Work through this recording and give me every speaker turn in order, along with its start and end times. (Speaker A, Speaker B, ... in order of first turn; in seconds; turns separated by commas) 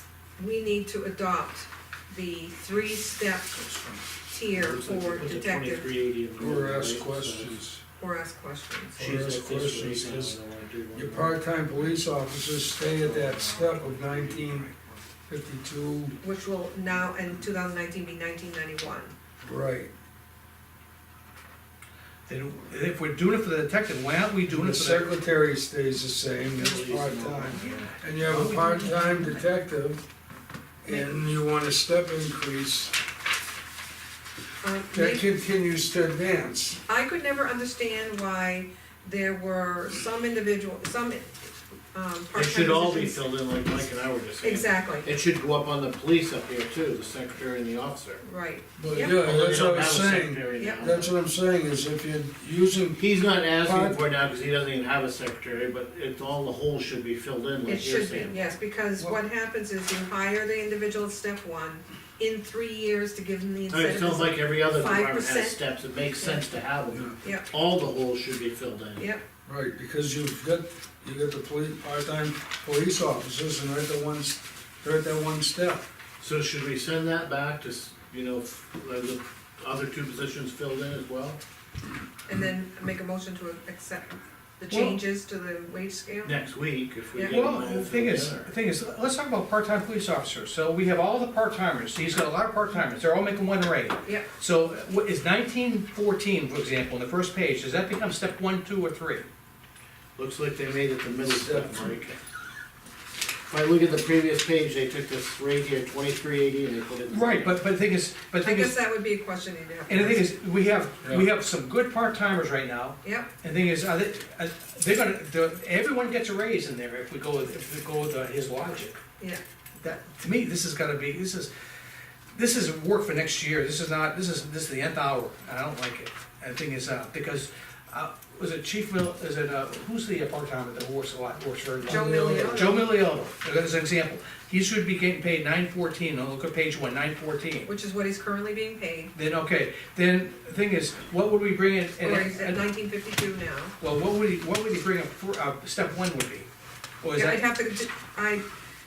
Speaker A: 0.4-5.9, Speaker B: 3.6-4.0, Speaker C: 4.5-7.6, Speaker D: 6.4-7.8, Speaker A: 8.0-9.1, Speaker D: 9.0-10.3, Speaker C: 9.0-11.4, Speaker D: 10.9-14.7, Speaker C: 12.8-15.0, Speaker D: 15.3-16.2, Speaker A: 16.2-19.1, Speaker D: 19.4-19.9, Speaker B: 22.3-25.1, Speaker D: 24.5-30.0, Speaker C: 26.5-27.9, Speaker B: 27.5-29.4, Speaker A: 28.8-29.4, Speaker D: 30.8-32.9, Speaker A: 30.9-31.2, Speaker A: 34.6-35.2, Speaker D: 34.9-36.8, Speaker A: 36.9-43.3, Speaker C: 42.3-48.2, Speaker A: 44.4-45.1, Speaker A: 48.2-49.3, Speaker D: 48.8-54.0, Speaker C: 48.9-51.1, Speaker A: 50.5-50.9, Speaker C: 53.0-58.5, Speaker A: 57.6-65.7, Speaker C: 63.7-69.1, Speaker A: 66.2-66.5, Speaker A: 67.2-67.5, Speaker A: 69.0-69.2, Speaker D: 69.5-75.8, Speaker C: 76.2-81.4, Speaker A: 82.3-86.4, Speaker B: 84.7-85.0, Speaker C: 86.2-88.5, Speaker A: 87.1-87.4, Speaker B: 87.2-99.2, Speaker C: 100.2-102.2, Speaker D: 101.2-101.9, Speaker C: 103.5-107.5, Speaker B: 107.0-108.8, Speaker A: 108.4-110.2, Speaker B: 109.9-119.0, Speaker A: 113.0-113.3, Speaker B: 119.8-121.5, Speaker B: 122.3-137.7, Speaker D: 131.8-132.7, Speaker A: 131.8-132.8, Speaker A: 137.7-139.1, Speaker B: 139.1-142.7, Speaker A: 142.0-143.7, Speaker B: 143.8-146.5, Speaker B: 147.0-147.5, Speaker A: 147.1-148.4